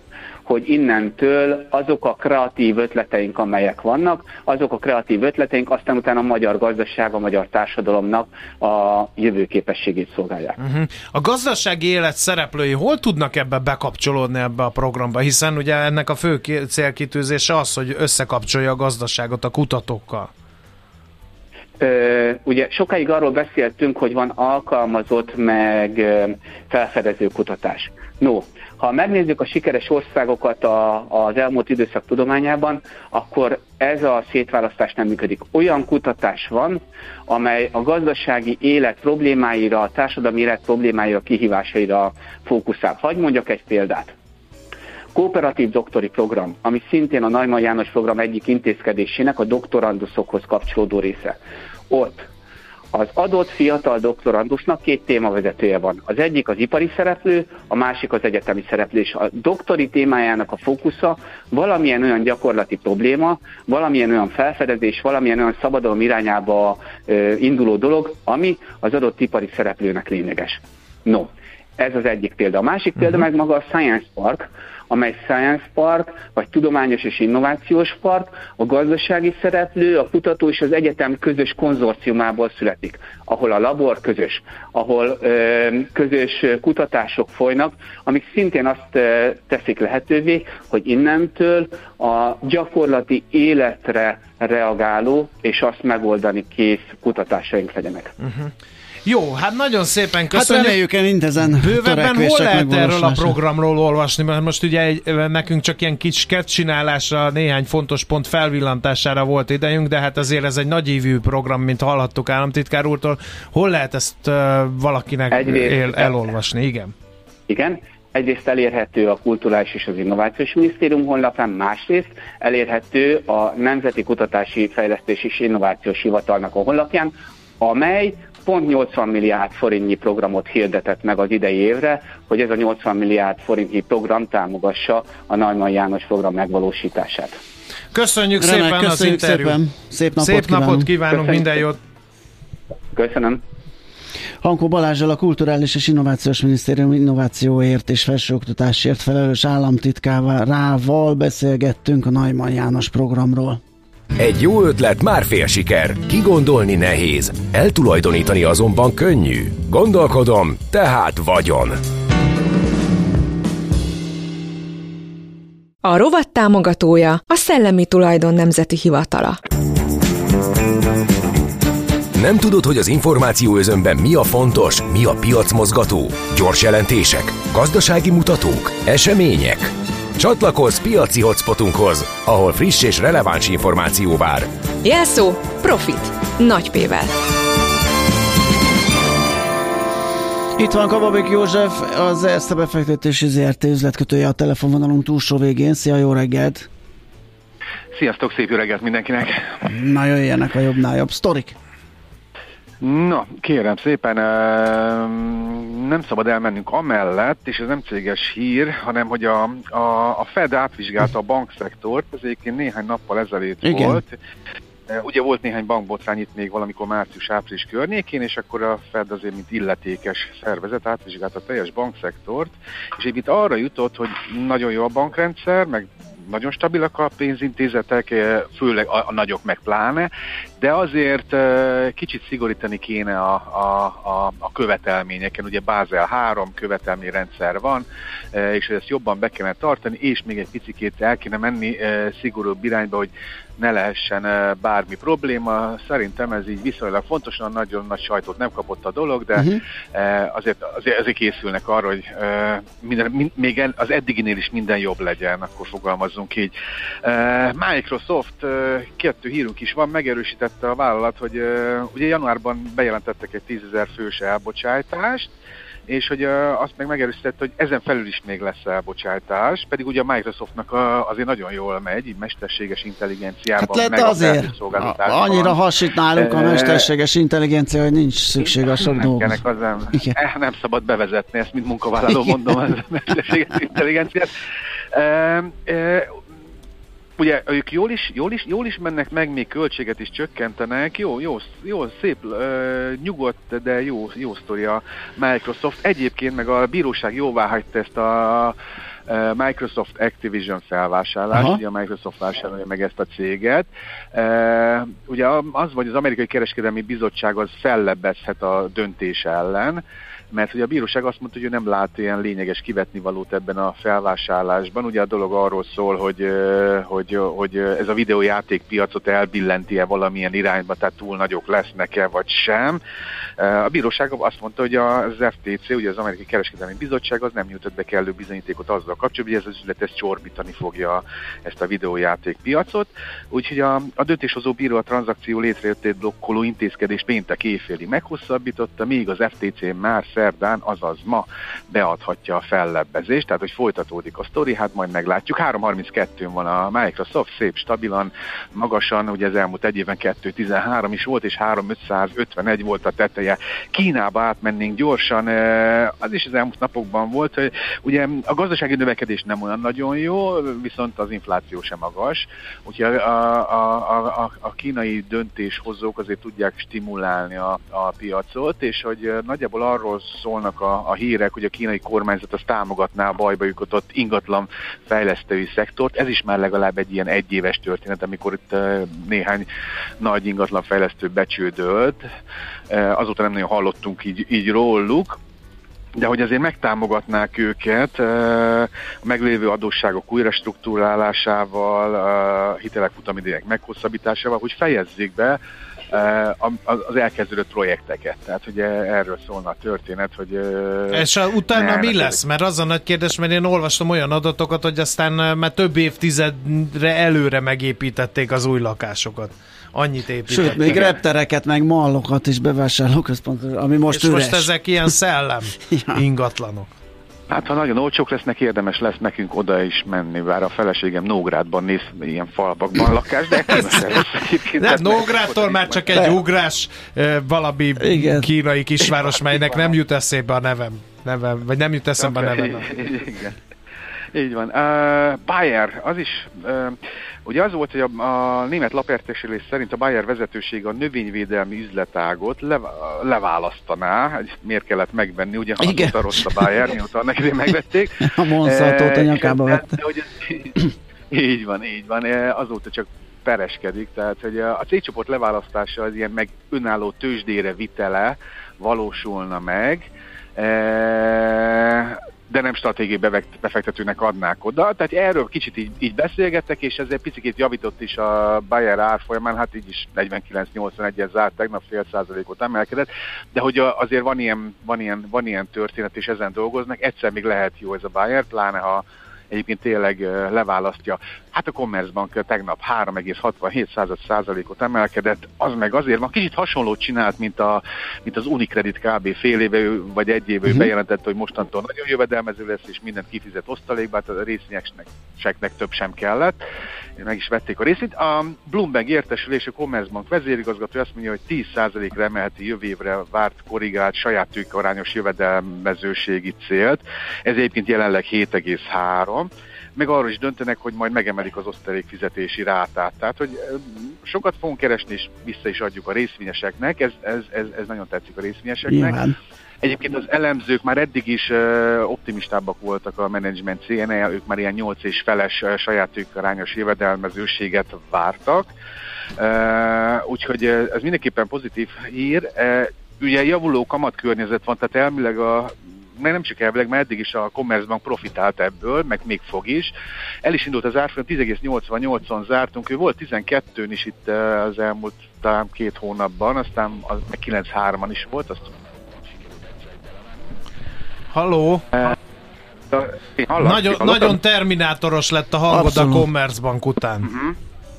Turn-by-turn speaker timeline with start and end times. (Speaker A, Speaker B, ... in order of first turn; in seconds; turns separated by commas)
Speaker A: 0.5-10.6, Speaker B: 10.6-20.3, Speaker A: 21.8-44.1, Speaker A: 45.1-51.4, Speaker A: 51.9-52.3, Speaker A: 52.9-98.1, Speaker B: 98.2-98.5, Speaker B: 99.0-100.8, Speaker C: 100.3-103.4, Speaker B: 101.6-116.9, Speaker A: 115.3-116.3, Speaker A: 117.5-137.4, Speaker B: 137.9-139.6, Speaker C: 138.4-140.9, Speaker B: 140.2-141.8, Speaker A: 141.1-141.6, Speaker A: 142.9-143.4, Speaker C: 144.4-153.6, Speaker D: 154.2-161.8, Speaker E: 165.8-169.4, Speaker D: 172.2-184.5, Speaker E: 184.8-187.1, Speaker C: 190.6-196.7, Speaker F: 197.9-199.6, Speaker C: 199.6-201.6, Speaker F: 202.8-214.1, Speaker C: 213.6-214.0, Speaker F: 214.9-265.3, Speaker F: 265.9-275.6, Speaker C: 273.6-279.4, Speaker F: 276.1-276.9, Speaker F: 278.8-284.3, Speaker F: 284.9-286.2, Speaker F: 287.2-298.6, Speaker F: 299.1-322.8, Speaker C: 301.3-301.6, Speaker F: 323.4-379.5, Speaker F: 380.0-382.1, Speaker F: 382.7-385.2, Speaker F: 386.0-402.2, Speaker B: 400.9-411.0, Speaker C: 410.3-414.5, Speaker B: 413.9-416.7, Speaker C: 415.7-416.0, Speaker F: 417.3-426.1, Speaker B: 424.6-432.7, Speaker C: 427.8-428.3, Speaker F: 429.3-429.6, Speaker F: 432.0-433.4, Speaker F: 434.1-496.4, Speaker C: 445.6-446.4, Speaker C: 448.0-449.8, Speaker F: 497.0-519.1, Speaker C: 518.7-519.1, Speaker F: 519.6-528.5, Speaker F: 529.2-539.7, Speaker F: 540.2-548.5, Speaker B: 551.1-551.9, Speaker F: 552.7-554.2, Speaker B: 553.4-557.1, Speaker C: 555.5-556.1, Speaker F: 557.0-557.3